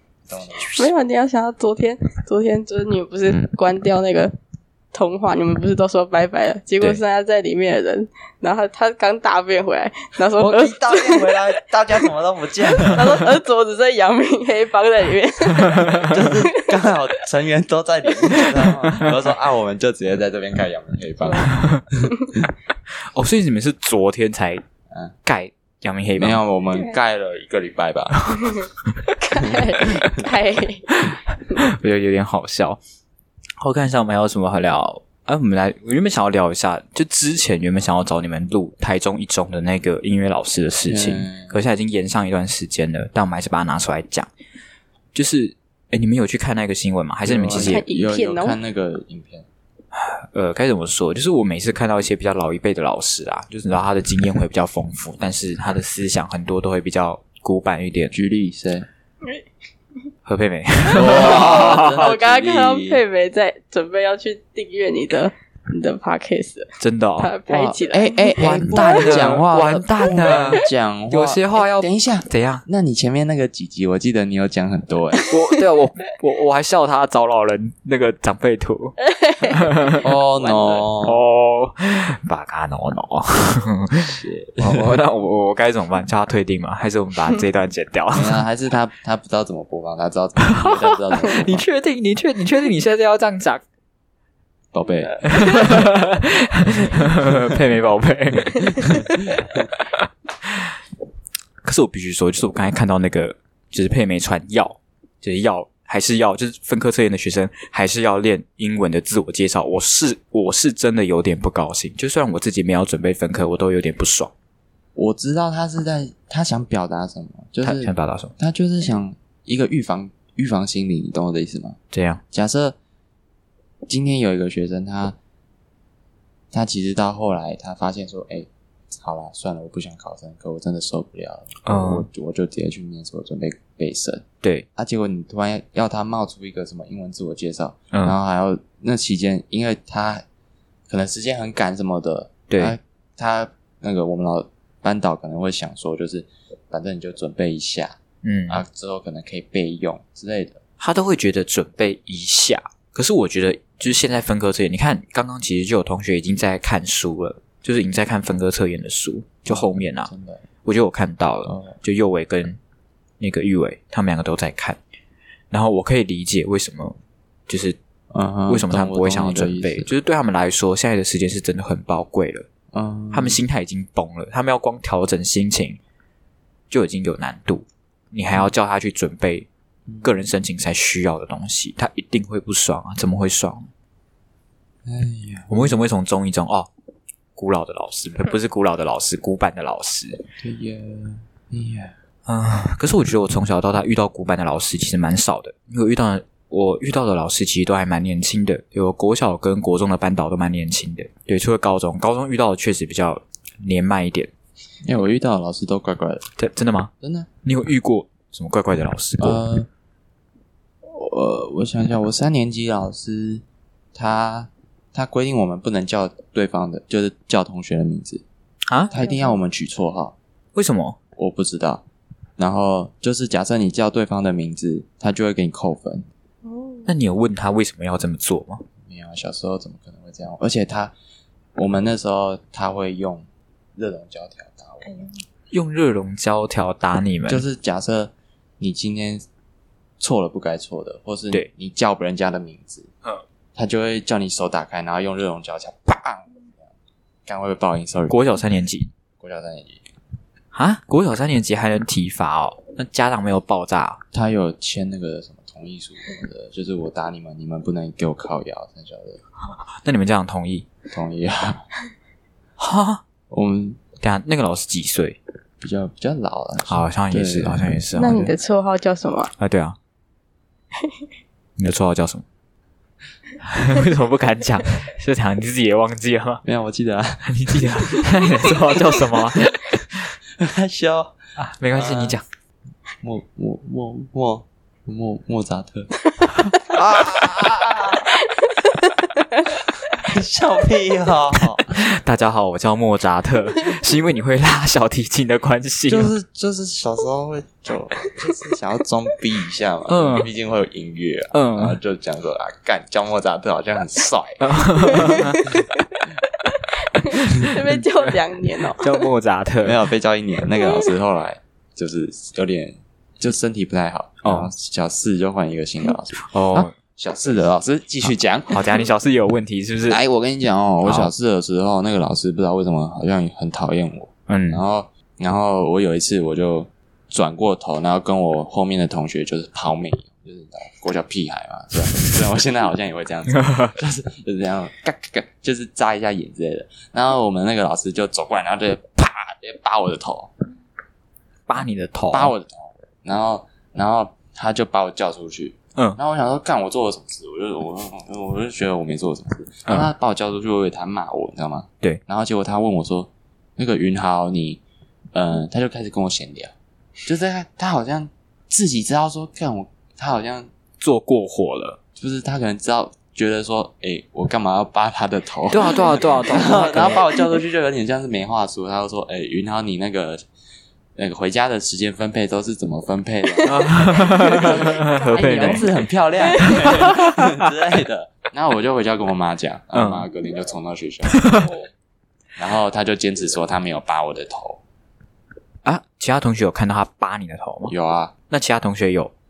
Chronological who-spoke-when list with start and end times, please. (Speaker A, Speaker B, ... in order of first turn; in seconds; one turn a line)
Speaker A: 0.3-0.9
Speaker B: 0.6-4.3
Speaker B: 4.9-11.4
Speaker A: 10.4-13.3
Speaker B: 12.9-16.4
Speaker A: 16.0-22.1
Speaker B: 21.2-21.5
Speaker C: 21.5-21.8
Speaker C: 22.9-24.6
Speaker C: 25.2-26.4
Speaker A: 26.2-28.6
Speaker B: 28.6-31.0
Speaker A: 29.3-30.2
Speaker C: 31.1-32.8
Speaker C: 33.6-44.3
Speaker A: 40.9-41.6
Speaker C: 45.1-47.8
Speaker A: 47.2-49.5
Speaker B: 47.5-48.6
Speaker C: 49.9-58.1
Speaker A: 58.1-58.9
Speaker C: 60.2-62.1
Speaker A: 60.9-63.0
Speaker B: 60.9-69.3
Speaker C: 66.8-67.3
Speaker A: 67.5-75.3
Speaker C: 68.4-72.6
Speaker C: 75.3-79.0
Speaker B: 79.0-80.8
Speaker C: 79.5-80.0
Speaker A: 80.0-81.2
Speaker C: 81.0-88.4
Speaker A: 84.0-84.8
Speaker A: 88.1-91.6
Speaker C: 90.5-93.6
Speaker A: 94.7-95.3
Speaker C: 95.2-99.4
Speaker A: 99.2-99.6
Speaker C: 99.9-100.7
Speaker C: 101.6-114.3
Speaker A: 115.0-121.8
Speaker C: 117.6-118.3
Speaker C: 121.9-122.2
Speaker A: 122.3-122.8
Speaker A: 123.9-125.2
Speaker A: 126.5-140.2
Speaker C: 131.6-132.1
Speaker A: 140.9-150.6
Speaker C: 142.5-142.8
Speaker C: 148.2-148.6
Speaker C: 150.8-160.1
Speaker A: 159.5-160.4
Speaker C: 160.6-162.6
Speaker A: 161.5-161.8
Speaker C: 163.2-164.8
Speaker C: 165.5-167.0
Speaker C: 167.5-167.8
Speaker A: 168.1-169.9
Speaker C: 168.5-172.5
Speaker A: 172.7-173.4
Speaker C: 173.1-175.8
Speaker C: 176.7-179.5
Speaker A: 179.9-180.2
Speaker C: 180.0-183.7
Speaker A: 184.9-185.8
Speaker C: 185.5-186.7
Speaker C: 187.4-190.2
Speaker A: 190.4-191.9
Speaker C: 192.3-204.3
Speaker A: 204.8-206.2
Speaker C: 206.4-206.9
Speaker A: 207.0-207.3
Speaker C: 207.4-209.4
Speaker A: 209.2-209.7
Speaker A: 210.9-213.4
Speaker A: 213.9-218.2
Speaker C: 218.7-218.9
Speaker B: 218.9-219.4
Speaker A: 218.9-220.2
Speaker C: 220.6-221.0
Speaker A: 221.2-221.8
Speaker A: 222.4-226.1
Speaker B: 226.4-226.9
Speaker C: 226.9-228.6
Speaker A: 228.9-230.9
Speaker A: 231.6-235.1
Speaker B: 234.8-235.1
Speaker C: 235.5-237.4
Speaker A: 237.3-239.2
Speaker A: 240.0-242.9
Speaker A: 243.6-246.7
Speaker A: 247.3-248.2
Speaker C: 248.1-248.9
Speaker A: 249.2-249.8
Speaker C: 250.5-254.0
Speaker A: 254.1-259.2
Speaker C: 259.8-260.7
Speaker A: 260.9-261.6
Speaker C: 262.6-263.0
Speaker A: 263.3-263.8
Speaker C: 264.0-265.2
Speaker A: 265.6-268.2
Speaker C: 266.7-268.3
Speaker B: 268.0-269.3
Speaker C: 269.4-269.8
Speaker C: 271.6-272.2
Speaker C: 273.4-276.4
Speaker A: 276.4-278.2
Speaker C: 277.2-280.0
Speaker A: 280.4-281.1
Speaker C: 281.4-282.2
Speaker A: 281.8-282.2
Speaker A: 283.0-285.9
Speaker A: 286.7-288.0
Speaker C: 286.7-288.0
Speaker A: 289.9-291.8
Speaker C: 291.7-296.1
Speaker A: 295.9-305.3
Speaker C: 299.9-300.3
Speaker C: 301.3-301.8
Speaker C: 304.4-305.5
Speaker B: 305.0-305.6
Speaker B: 306.9-309.1
Speaker C: 307.4-309.8
Speaker A: 309.6-318.6
Speaker C: 314.2-314.5
Speaker C: 316.2-316.7
Speaker C: 318.5-320.0
Speaker A: 319.9-340.3
Speaker C: 320.9-321.1
Speaker C: 324.3-324.6
Speaker C: 333.3-333.7
Speaker C: 341.5-342.3
Speaker A: 342.1-354.6
Speaker A: 355.1-356.5
Speaker A: 357.1-360.5
Speaker C: 360.8-361.8
Speaker A: 362.0-370.2
Speaker C: 365.5-367.1
Speaker A: 371.0-381.5
Speaker C: 373.5-375.7
Speaker B: 373.6-376.9
Speaker C: 376.4-377.1
Speaker C: 379.7-380.1
Speaker C: 381.2-381.5
Speaker A: 382.4-384.6
Speaker C: 385.6-387.7
Speaker A: 387.7-388.1
Speaker C: 388.3-389.1